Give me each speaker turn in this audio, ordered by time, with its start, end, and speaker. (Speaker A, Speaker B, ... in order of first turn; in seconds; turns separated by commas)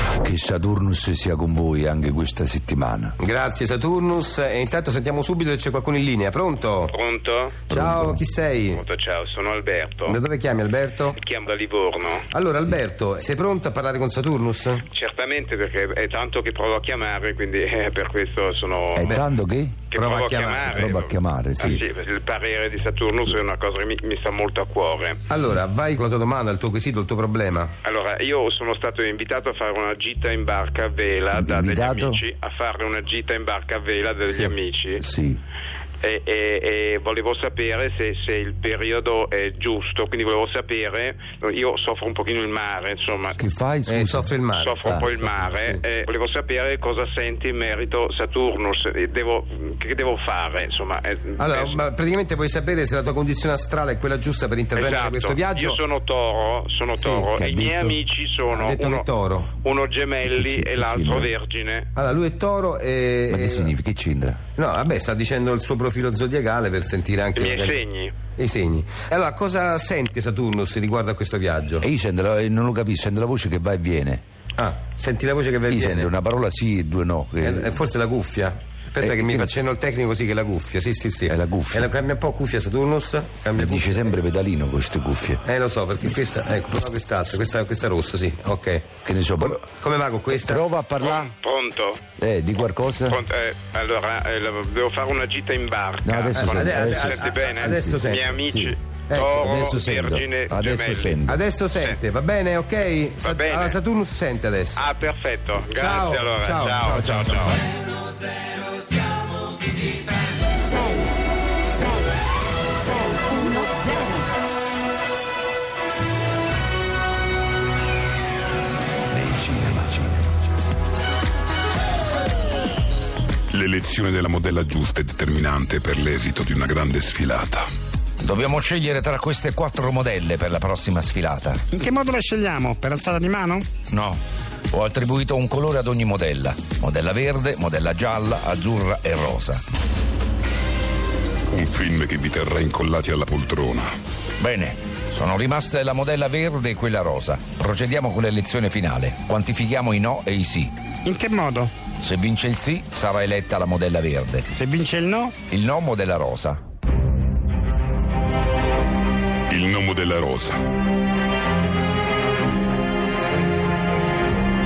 Speaker A: 0.2-3.2, Speaker B: 3.2-6.9, Speaker C: 6.9-7.7, Speaker B: 7.7-8.8, Speaker A: 7.7-8.2, Speaker C: 8.7-10.2, Speaker B: 10.1-11.2, Speaker C: 11.2-12.3, Speaker B: 12.3-14.8, Speaker C: 14.9-19.2, Speaker A: 18.9-19.8, Speaker C: 19.9-25.2, Speaker B: 19.9-21.0, Speaker A: 20.8-21.8, Speaker B: 25.3-27.7, Speaker C: 27.8-35.0, Speaker A: 31.3-32.2, Speaker A: 34.3-35.4, Speaker C: 36.0-43.4, Speaker A: 43.4-44.3, Speaker B: 43.9-45.8, Speaker C: 44.6-51.8, Speaker A: 44.9-45.2, Speaker B: 51.4-55.8, Speaker C: 54.8-61.9, Speaker B: 57.0-57.3, Speaker A: 57.3-58.0, Speaker B: 58.5-59.5, Speaker A: 60.2-61.3, Speaker B: 62.0-63.7, Speaker A: 63.3-64.4, Speaker B: 64.6-71.8, Speaker C: 67.4-68.2, Speaker A: 71.8-74.2, Speaker B: 74.6-76.1, Speaker A: 75.7-77.8, Speaker B: 77.4-84.2, Speaker A: 79.0-79.5, Speaker A: 81.3-81.9, Speaker A: 83.5-85.4, Speaker B: 85.4-90.6, Speaker A: 89.0-89.7, Speaker A: 90.3-91.3, Speaker C: 91.0-92.0, Speaker A: 92.2-93.2, Speaker C: 93.1-101.2, Speaker A: 96.0-98.8, Speaker B: 96.4-98.3, Speaker A: 99.3-101.4, Speaker B: 101.3-104.8, Speaker C: 103.2-103.8, Speaker C: 104.8-107.6, Speaker B: 105.7-107.5, Speaker A: 119.1-120.2, Speaker D: 123.5-127.7, Speaker A: 128.2-131.6, Speaker E: 131.7-133.7, Speaker A: 133.9-134.2, Speaker A: 134.7-139.6, Speaker D: 141.5-143.9, Speaker A: 144.4-150.7, Speaker E: 151.1-151.7, Speaker A: 152.0-154.5, Speaker E: 154.6-155.3, Speaker A: 155.5-156.6, Speaker D: 159.5-160.6